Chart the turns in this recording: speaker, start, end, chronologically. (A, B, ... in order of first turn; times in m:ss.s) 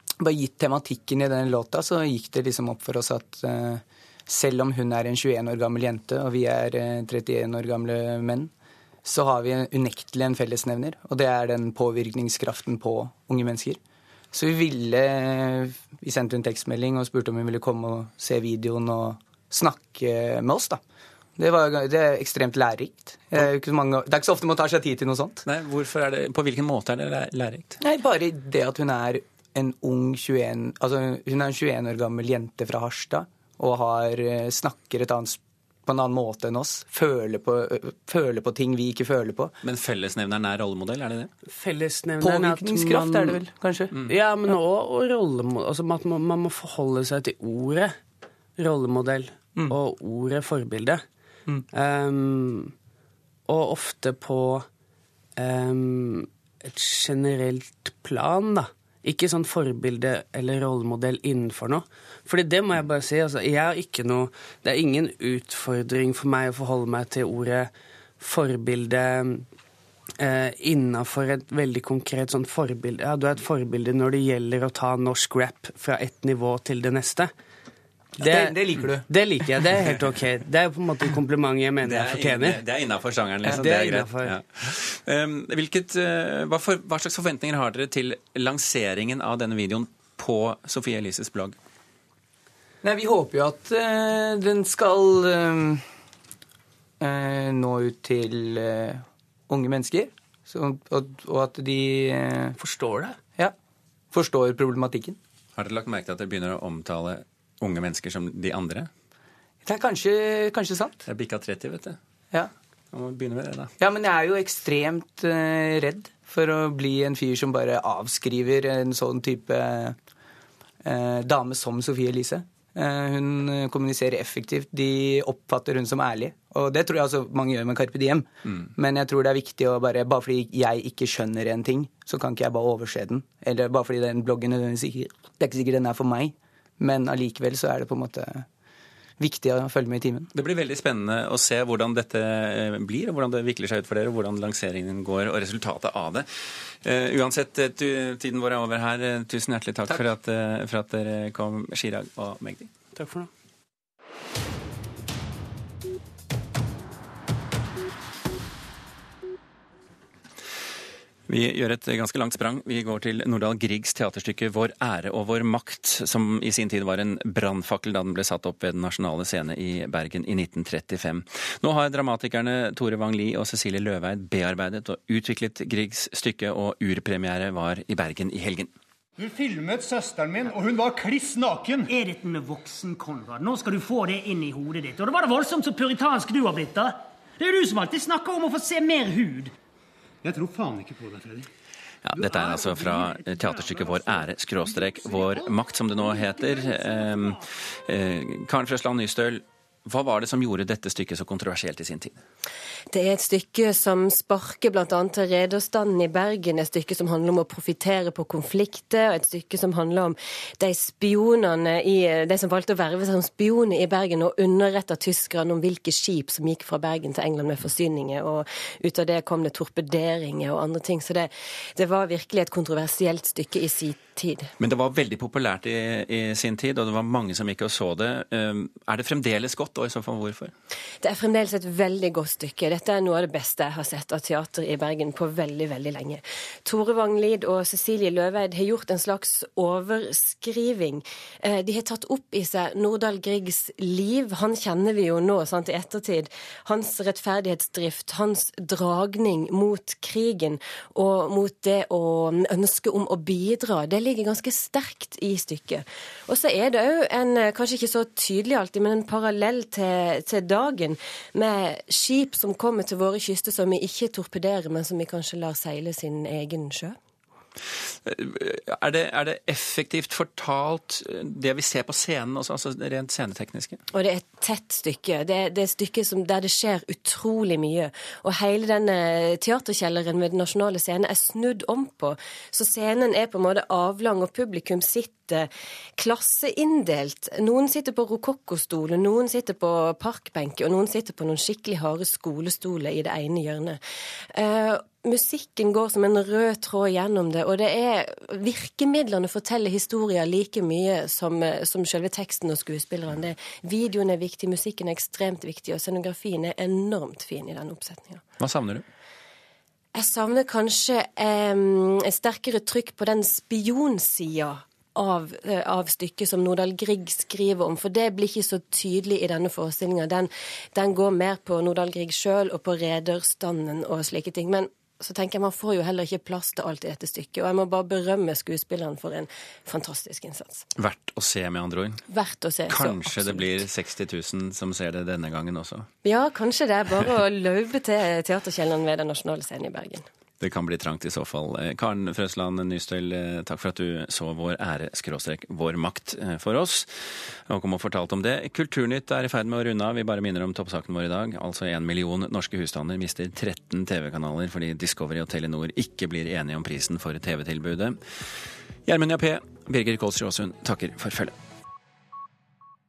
0:00.2-0:08.5 A
0:09.0-0:13.8 A
0:14.3-0:20.8 A
0:21.4-0:25.4 A
0:25.4-0:27.8 B
0:27.8-0:39.5 A
0:39.6-0:41.3 B
0:41.5-0:43.4 C
0:42.2-0:43.9 A
0:44.0-0:48.0 C
0:48.6-0:51.0 C
0:51.7-0:52.7 C
0:53.4-0:54.7 C
0:55.4-1:09.5 C
1:10.2-1:17.3 C
1:18.2-1:19.5 A
1:18.2-1:22.6 C
1:21.8-1:31.6 B
1:23.4-1:24.4 C
1:32.8-1:35.8 A
1:37.0-1:42.6 A
1:42.6-1:43.2 C
1:44.1-1:45.2 A
1:45.5-1:48.9 B
1:49.6-1:51.0 A
1:51.0-1:52.0 B
1:52.9-1:53.7 B
1:53.8-2:00.0 A
2:00.8-2:18.4 A
2:19.2-2:20.3 A
2:20.3-2:26.3 B
2:26.8-2:32.7 B
2:32.9-2:33.3 C
2:41.3-2:58.7 B
2:59.2-3:01.9 D
3:01.9-3:09.5 E
3:10.2-3:11.5 D
3:12.0-3:22.2 B
3:22.9-3:44.5 F
3:44.6-3:50.5 B
3:51.0-4:27.0 F
4:28.0-4:33.8 B
4:33.9-4:53.8 F
4:54.3-5:08.2 F
5:08.4-5:08.8 B
5:09.9-5:30.6 F
5:30.8-5:32.0 B
5:32.1-5:33.6 F
5:32.7-5:35.9 B
5:36.0-5:40.0 F
5:40.4-5:58.0 B
5:58.8-6:01.3 B